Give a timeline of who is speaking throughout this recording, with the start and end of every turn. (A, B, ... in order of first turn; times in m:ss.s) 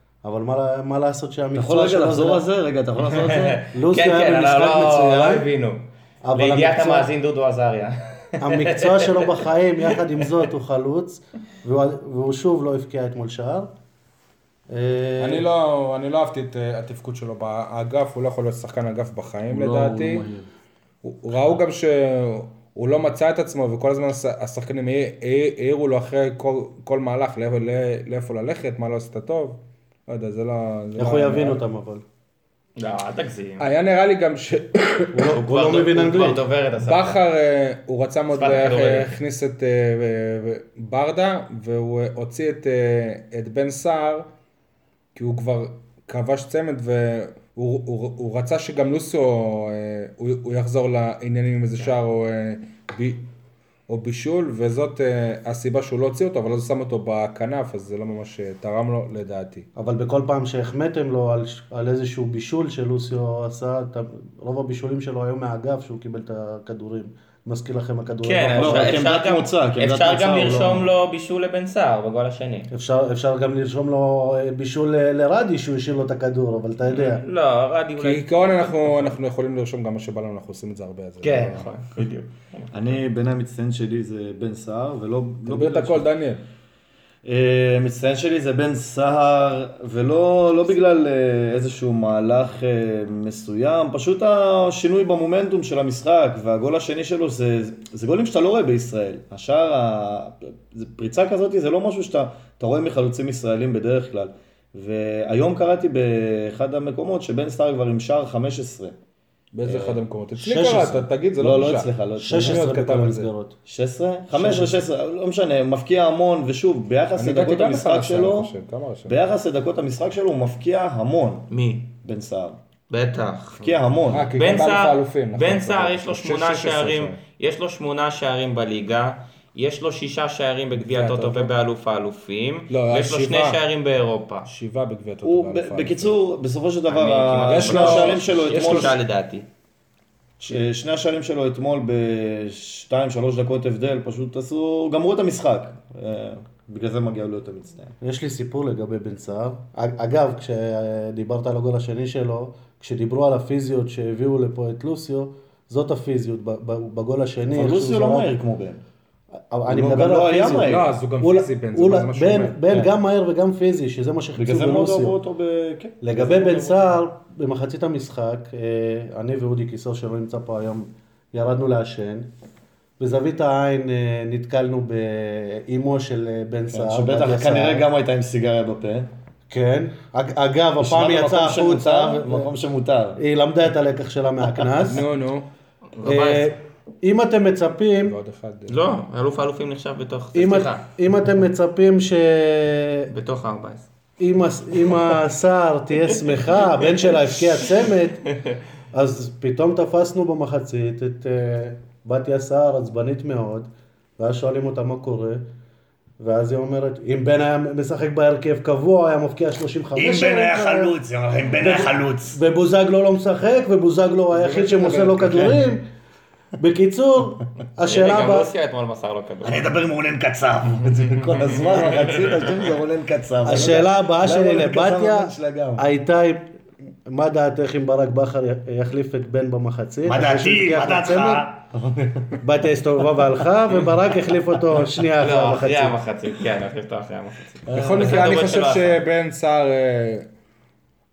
0:00.2-0:02.4 A
0:01.5-0:03.6 B
0:03.0-0:10.0 C
0:03.7-0:05.4 A
0:06.2-0:07.1 A
0:08.4-0:13.7 A
0:14.7-0:15.4 A
0:15.2-0:20.2 D
0:19.5-0:20.4 B
0:21.0-0:31.6 D
0:31.0-0:32.0 A
0:32.8-0:33.7 C
0:33.6-0:35.3 D
0:35.1-0:36.4 A
0:35.3-0:37.2 C
0:36.8-0:44.3 D
0:38.3-0:39.1 C
0:45.1-0:53.2 D
0:53.9-0:59.7 D
0:59.8-1:09.0 A
1:08.2-1:12.7 C
1:08.6-1:10.9 B
1:12.7-1:17.2 A
1:16.9-1:19.1 C
1:18.0-1:21.7 D
1:21.2-1:23.0 C
1:22.7-1:26.0 B
1:25.4-1:26.4 D
1:27.2-1:48.9 B
1:49.5-1:53.3 D
1:49.6-1:50.0 B
1:50.4-1:51.0 A
1:51.4-1:52.6 B
1:52.2-1:53.5 A
1:53.6-1:58.5 B
1:54.3-1:54.8 A
1:57.2-1:59.2 D
1:59.1-2:01.5 B
2:01.5-2:01.9 C
2:02.0-2:02.6 B
2:02.9-2:03.7 C
2:03.6-2:04.3 B
2:04.1-2:07.2 D
2:04.4-2:14.5 C
2:10.7-2:11.5 D
2:12.7-2:13.6 D
2:14.4-2:16.1 D
2:15.2-2:19.0 B
2:16.9-2:19.5 C
2:17.4-2:19.0 D
2:20.4-2:27.9 B
2:28.0-2:38.3 A
2:37.5-2:38.8 B
2:39.5-2:45.2 A
2:39.7-2:40.8 B
2:40.6-2:42.8 D
2:44.4-2:46.9 B
2:46.0-2:52.3 A
2:53.0-2:57.8 A
2:56.7-2:59.1 B
2:59.5-3:02.5 A
3:00.8-3:03.2 B
3:03.2-3:05.0 A
3:04.8-3:05.5 D
3:05.9-3:06.5 C
3:06.0-3:08.2 A
3:08.0-3:08.7 D
3:08.7-3:10.8 C
3:10.3-3:13.1 A
3:13.1-3:13.9 C
3:14.2-3:18.4 A
3:18.9-3:25.4 A
3:26.2-3:30.9 A
3:29.9-3:32.4 B
3:31.6-3:35.8 A
3:35.1-3:35.5 B
3:36.6-3:38.5 A
3:37.8-3:39.6 C
3:39.4-3:45.8 B
3:41.4-3:42.6 C
3:43.4-3:46.4 A
3:47.0-3:51.5 A
3:50.0-3:52.4 B
3:52.4-3:56.0 A
3:55.2-3:59.0 C
3:57.7-3:58.1 B
3:57.7-4:00.3 D